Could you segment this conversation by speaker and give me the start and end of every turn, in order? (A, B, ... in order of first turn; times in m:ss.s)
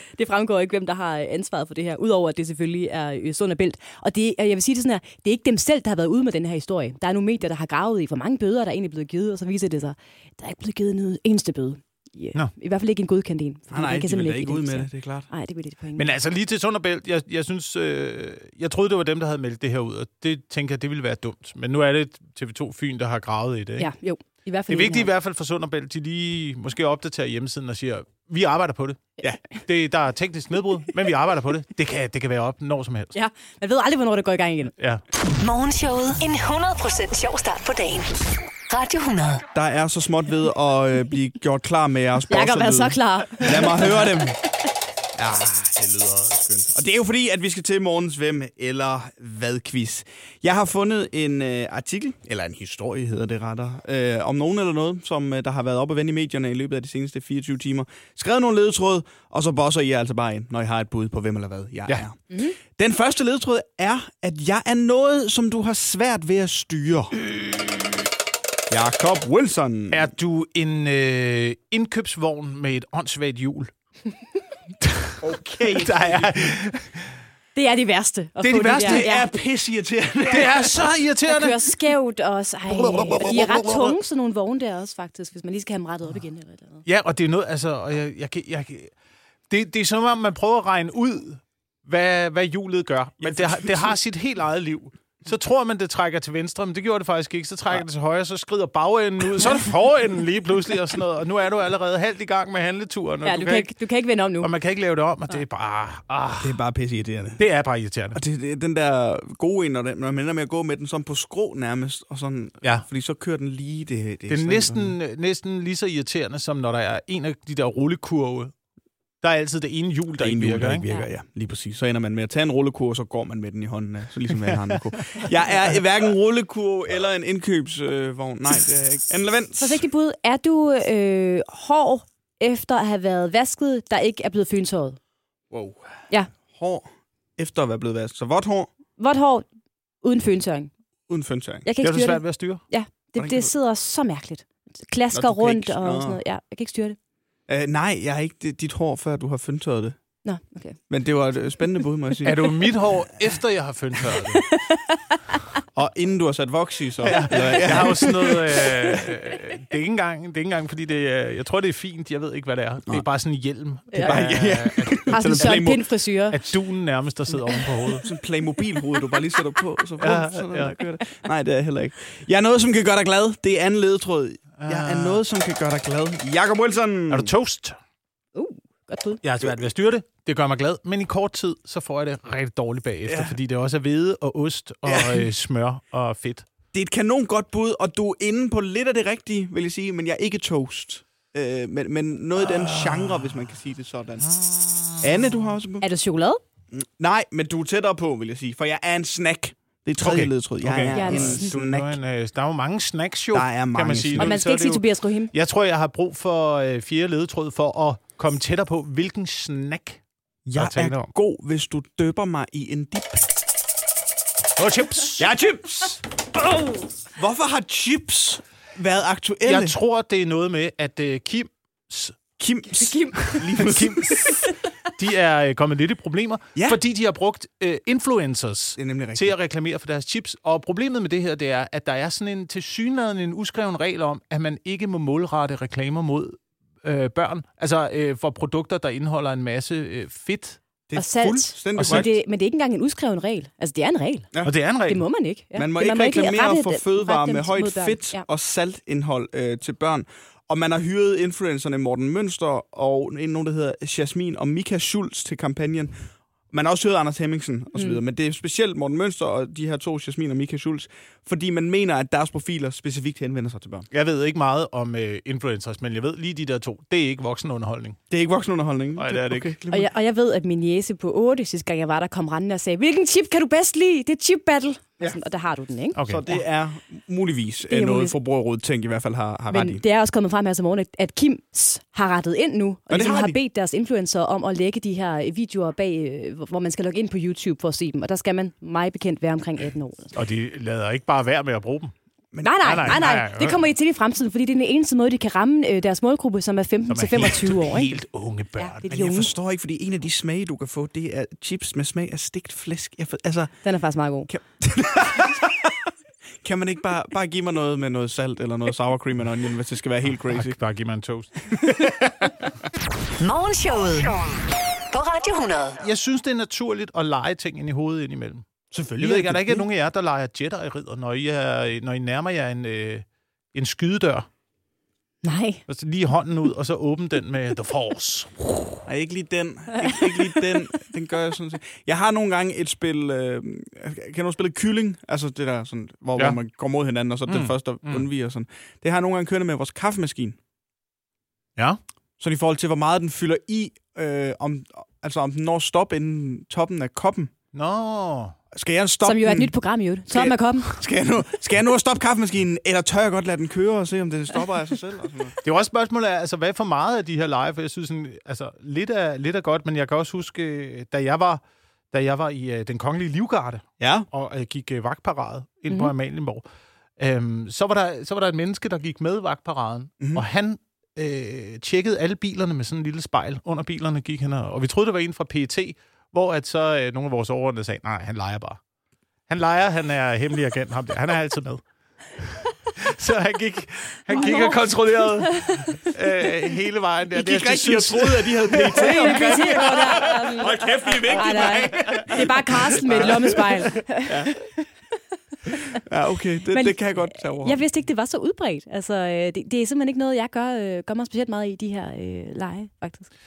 0:00.1-0:16.1 A
0:13.7-0:15.3 B
0:16.0-0:23.9 C
0:23.8-0:25.1 A
0:24.7-0:29.0 C
0:29.6-0:33.1 C
0:33.1-0:34.7 A
0:35.4-0:39.4 D
0:39.5-0:44.4 B
0:42.3-0:44.1 A
0:45.2-1:07.1 B
1:08.7-1:10.1 B
1:09.9-1:13.7 C
1:15.2-1:16.5 B
1:15.7-1:17.1 C
1:17.5-1:19.3 A
1:18.4-1:19.1 C
1:18.6-1:21.0 B
1:20.3-1:21.6 C
1:21.3-1:26.8 A
1:22.7-1:24.0 B
1:26.9-1:28.9 C
1:29.5-1:43.7 C
1:33.2-1:34.0 B
1:43.2-1:44.5 A
1:44.4-1:46.6 C
1:46.4-1:47.4 B
1:47.4-1:48.2 C
1:48.1-1:55.0 B
1:54.3-1:58.5 C
1:59.2-2:00.8 C
2:00.2-2:09.8 B
2:09.6-2:15.0 A
2:15.5-2:15.8 B
2:16.5-2:18.7 B
2:19.0-2:19.5 A
2:20.0-2:20.7 A
2:21.1-2:21.7 B
2:21.6-2:27.0 A
2:21.8-2:22.6 C
2:23.2-2:23.5 B
2:25.1-2:26.2 B
2:27.5-2:30.0 B
2:30.2-2:30.8 A
2:30.9-2:32.5 B
2:32.2-2:34.4 C
2:34.1-2:35.4 A
2:35.8-2:38.6 B
2:37.0-2:45.8 C
2:37.6-2:38.7 A
2:43.9-2:44.2 A
2:44.0-2:45.8 B
2:45.1-2:46.4 A
2:46.3-2:48.0 C
2:48.0-2:57.3 B
2:50.0-2:50.8 C
2:54.6-2:55.2 C
2:57.1-2:57.8 C
2:58.4-2:59.2 A
2:59.2-3:06.5 C
3:03.1-3:03.4 B
3:04.9-3:05.3 B
3:06.7-3:14.3 B
3:12.8-3:13.1 C
3:15.0-3:15.8 B
3:15.8-3:16.4 A
3:16.7-3:22.0 B
3:20.0-3:30.0 C
3:20.9-3:21.5 A
3:23.3-3:24.4 B
3:24.2-3:25.3 A
3:30.4-3:33.2 B
3:30.6-3:31.1 C
3:34.6-3:35.3 C
3:35.2-3:36.0 B
3:37.1-3:39.8 B
3:39.4-3:42.2 C
3:42.4-3:44.3 B
3:42.8-3:43.5 A
3:43.4-3:44.4 C
3:45.0-4:00.6 C
3:48.8-3:49.4 B
4:00.9-4:02.1 B
4:01.0-4:04.3 A
4:01.8-4:02.1 C
4:04.4-4:05.0 C
4:04.9-4:08.2 A
4:05.6-4:16.0 B
4:16.5-4:23.9 B
4:17.8-4:18.0 A
4:23.9-4:28.0 C
4:28.1-4:29.9 B
4:29.0-4:29.6 C
4:29.7-4:36.0 A
4:36.0-4:36.3 C
4:36.0-4:39.8 B
4:37.7-4:38.2 A
4:39.5-4:50.2 A
4:42.9-4:43.4 B
4:50.2-4:51.9 C
4:52.3-4:52.9 B
4:52.4-4:58.0 A
4:52.6-4:53.6 C
4:56.9-4:58.9 C
4:58.6-4:59.3 A
4:58.9-5:03.5 B
5:03.6-5:04.3 A
5:04.3-5:05.7 B
5:06.4-5:10.5 B
5:10.1-5:12.4 C
5:13.2-5:14.2 D
5:14.9-5:15.8 D
5:15.8-5:24.3 C
5:19.0-5:19.7 B
5:25.2-5:25.6 A
5:25.7-5:28.8 C
5:28.9-5:40.4 B
5:37.3-5:38.1 C
5:42.2-5:47.3 B
5:47.5-5:48.4 C
5:48.5-5:49.5 B
5:49.0-5:50.7 A
5:50.1-5:55.4 B
5:55.4-6:06.4 C
6:03.8-6:04.1 B
6:07.0-6:18.6 C
6:19.3-6:21.6 C
6:22.2-6:32.1 C
6:24.1-6:25.7 A
6:27.1-6:33.4 B
6:28.7-6:34.7 A
6:34.1-6:34.3 B
6:35.5-6:35.8 A
6:35.8-6:37.6 B
6:36.5-6:43.1 A